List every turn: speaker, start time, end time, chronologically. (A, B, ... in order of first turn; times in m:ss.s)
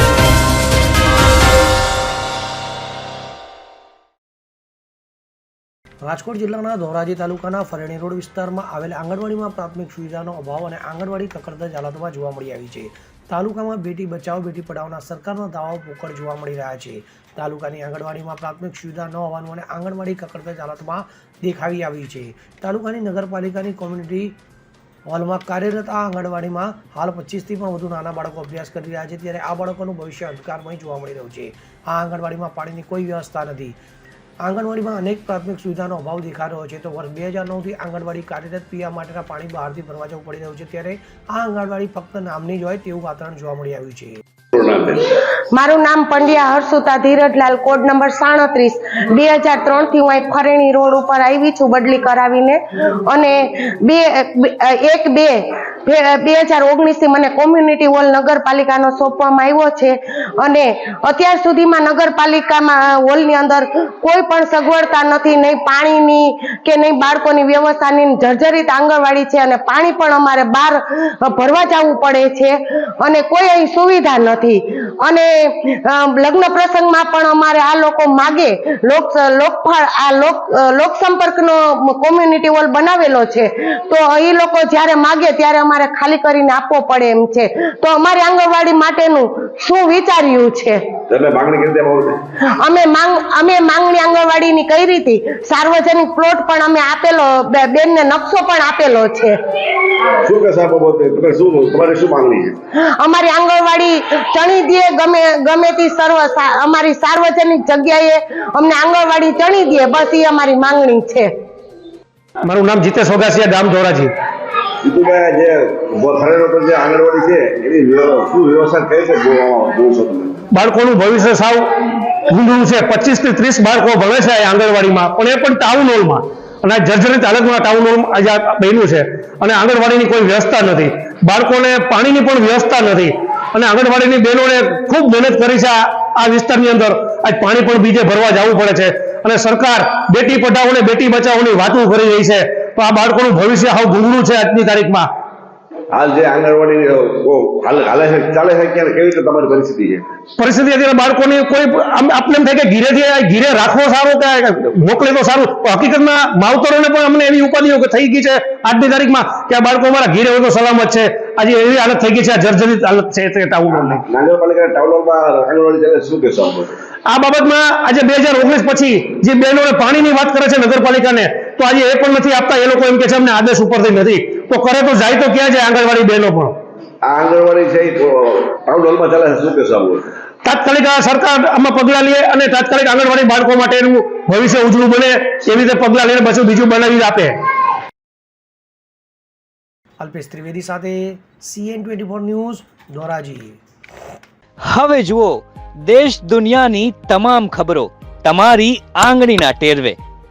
0:06.0-0:24.4 A
0:25.1-0:33.8 A
0:34.4-0:44.2 A
0:44.5-0:45.0 B
0:45.5-1:30.8 C
1:31.1-1:32.2 B
1:32.6-1:39.4 C
1:40.2-1:42.6 B
1:43.0-1:51.3 C
1:52.4-1:54.1 D
1:54.8-2:00.4 B
2:00.5-2:01.6 D
2:02.3-2:25.1 D
2:25.9-2:30.0 B
2:30.4-2:44.0 D
2:43.8-2:46.8 B
2:47.1-2:56.6 D
2:57.0-3:00.1 B
3:00.4-3:07.3 D
3:10.0-3:13.6 A
3:14.7-3:20.0 E